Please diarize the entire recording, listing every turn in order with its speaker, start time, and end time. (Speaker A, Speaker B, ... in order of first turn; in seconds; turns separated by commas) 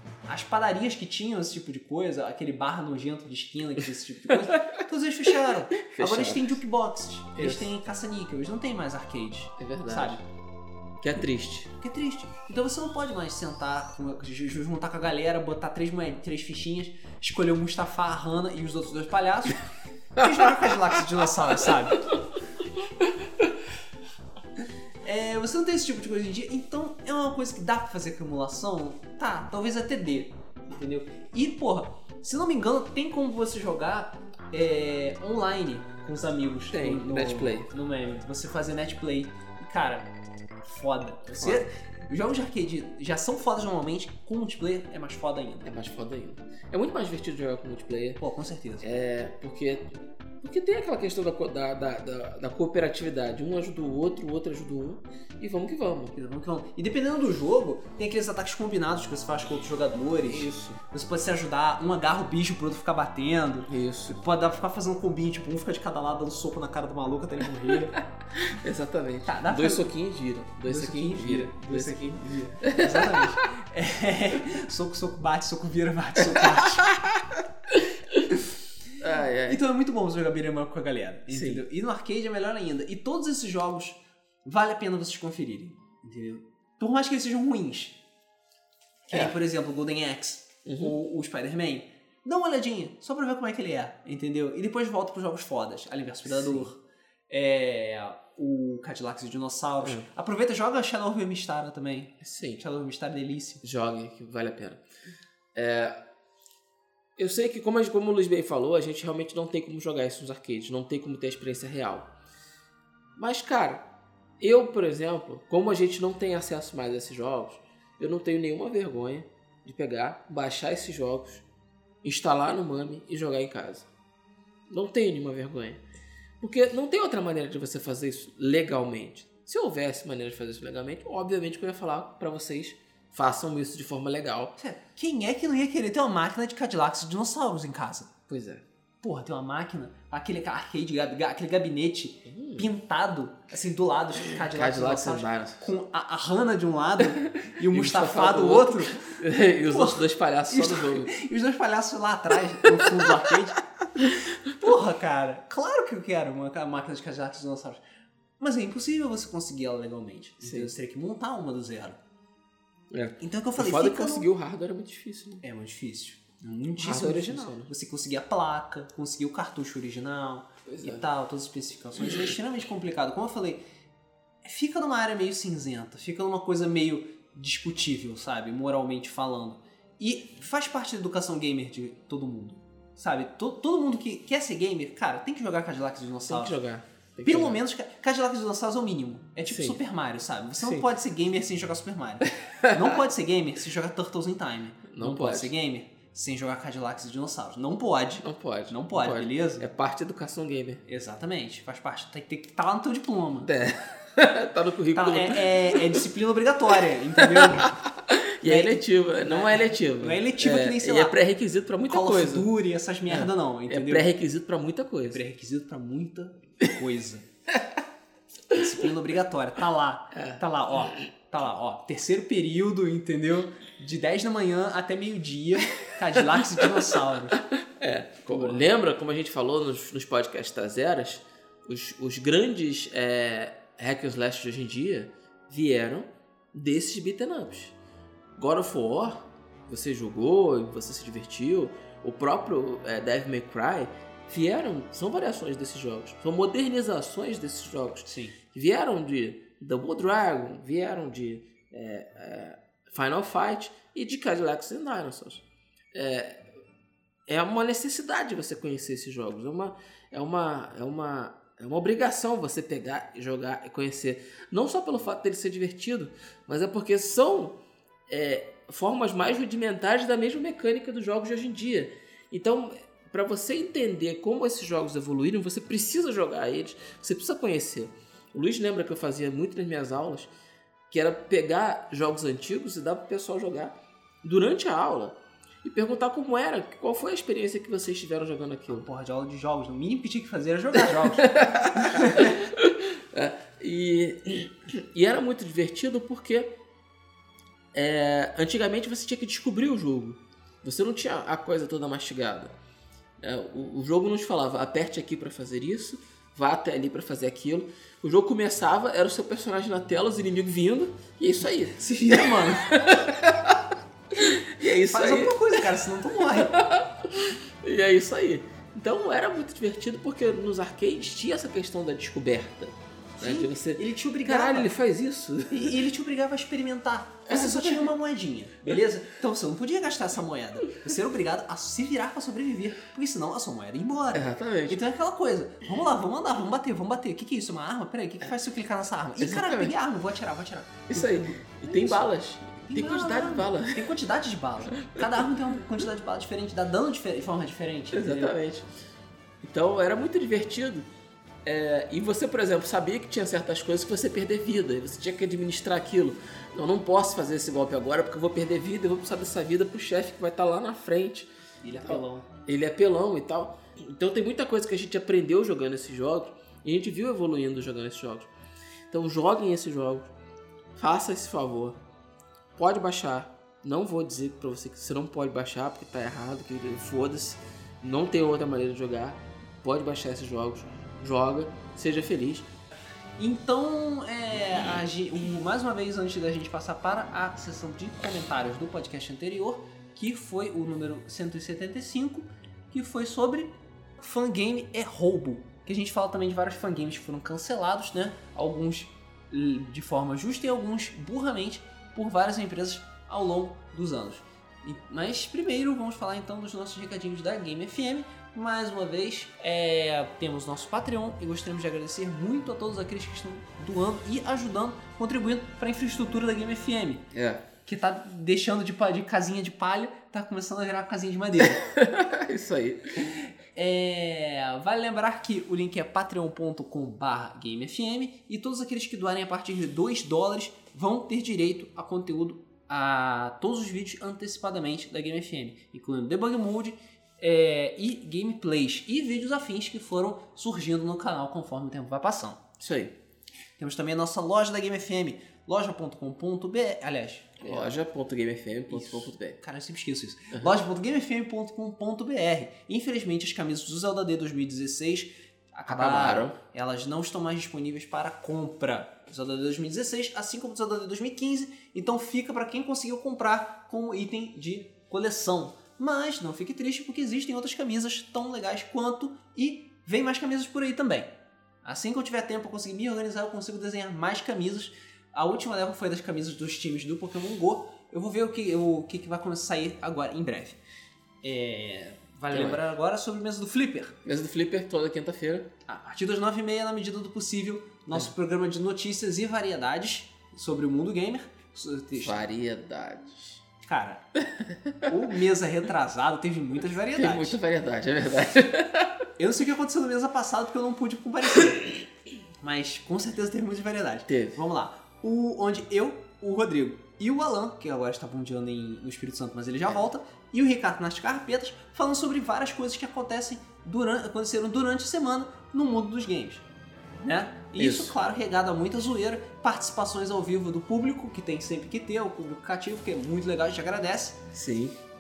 Speaker A: 0.3-10.2, Speaker B: 4.4-4.7, Speaker B: 5.8-6.6, Speaker B: 7.4-7.7, Speaker B: 9.6-10.2, Speaker B: 11.0-11.7, Speaker A: 11.8-19.6, Speaker A: 20.1-22.1, Speaker A: 25.0-40.1, Speaker B: 36.7-37.7, Speaker A: 40.6-45.7, Speaker B: 41.4-41.6, Speaker B: 45.6-48.2, Speaker A: 48.2-49.0, Speaker B: 48.8-56.2, Speaker A: 56.1-68.0, Speaker B: 60.2-60.8, Speaker B: 63.7-64.2, Speaker B: 68.3-73.4, Speaker A: 69.2-69.9, Speaker A: 70.7-77.0, Speaker B: 76.3-78.3, Speaker B: 79.0-79.6, Speaker A: 79.4-88.0, Speaker B: 81.3-81.6, Speaker A: 89.1-103.6, Speaker B: 90.7-90.9, Speaker B: 96.2-96.7, Speaker B: 102.2-102.6, Speaker B: 103.6-104.8, Speaker B: 105.5-106.0, Speaker B: 107.2-112.1, Speaker B: 113.2-113.9, Speaker B: 114.4-121.4, Speaker B: 122.0-123.9, Speaker B: 124.7-125.8, Speaker B: 126.4-134.5, Speaker A: 134.6-138.1, Speaker B: 138.3-138.6, Speaker A: 139.0-153.6, Speaker B: 142.3-142.7, Speaker B: 144.2-145.7, Speaker B: 147.4-151.1, Speaker B: 152.6-153.3, Speaker B: 154.0-154.3, Speaker A: 154.5-157.8, Speaker A: 158.4-162.0, Speaker B: 160.4-160.7, Speaker B: 162.9-165.4, Speaker A: 163.2-164.3, Speaker A: 165.4-173.6, Speaker B: 166.8-167.7, Speaker B: 170.7-171.0, Speaker A: 174.4-186.6, Speaker B: 186.3-187.6, Speaker A: 187.2-199.7, Speaker B: 189.4-189.8, Speaker B: 190.6-190.9, Speaker B: 192.6-192.9, Speaker B: 194.9-195.5, Speaker B: 198.2-200.8, Speaker A: 200.8-203.5, Speaker B: 203.4-206.0, Speaker A: 204.9-207.8, Speaker B: 207.2-212.5, Speaker A: 208.4-211.2, Speaker A: 211.8-214.1, Speaker B: 213.1-215.2, Speaker A: 215.1-217.2, Speaker A: 218.5-227.4, Speaker B: 220.1-220.4, Speaker B: 226.3-226.6, Speaker B: 227.5-237.8, Speaker A: 228.3-228.6, Speaker B: 238.3-256.4, Speaker A: 248.0-248.3, Speaker B: 257.3-267.6, Speaker B: 268.1-280.3, Speaker B: 280.9-288.9, Speaker A: 288.7-292.4, Speaker B: 290.9-296.5, Speaker B: 297.7-302.5, Speaker B: 303.2-325.8, Speaker A: 311.8-312.9, Speaker A: 314.8-316.6, Speaker A: 323.2-324.7, Speaker A: 325.5-342.1, Speaker B: 327.3-327.9, Speaker B: 334.1-334.8, Speaker B: 339.2-339.7, Speaker B: 340.9-343.9, Speaker A: 342.6-348.3, Speaker B: 344.7-345.3, Speaker B: 347.9-348.7, Speaker B: 349.4-350.9, Speaker B: 351.4-361.3, Speaker A: 361.6-362.3, Speaker B: 361.8-368.3, Speaker B: 368.9-370.1, Speaker B: 370.8-371.8, Speaker B: 372.6-382.5, Speaker A: 383.2-417.1, Speaker B: 417.1-417.4, Speaker A: 417.6-421.6, Speaker B: 421.4-423.1, Speaker A: 423.1-442.4, Speaker B: 442.6-442.9, Speaker A: 443.6-447.8, Speaker B: 447.4-449.4, Speaker A: 448.7-480.6, Speaker B: 455.7-456.4, Speaker A: 481.2-484.0, Speaker B: 482.3-482.6, Speaker B: 484.0-485.5, Speaker A: 485.6-492.2, Speaker B: 492.0-493.4, Speaker A: 493.6-494.0, Speaker B: 494.1-494.9, Speaker A: 494.8-497.4, Speaker B: 496.9-499.1, Speaker A: 499.2-501.8, Speaker A: 502.4-516.4, Speaker B: 504.1-504.4, Speaker A: 517.0-524.2, Speaker B: 517.6-518.0, Speaker B: 524.3-524.8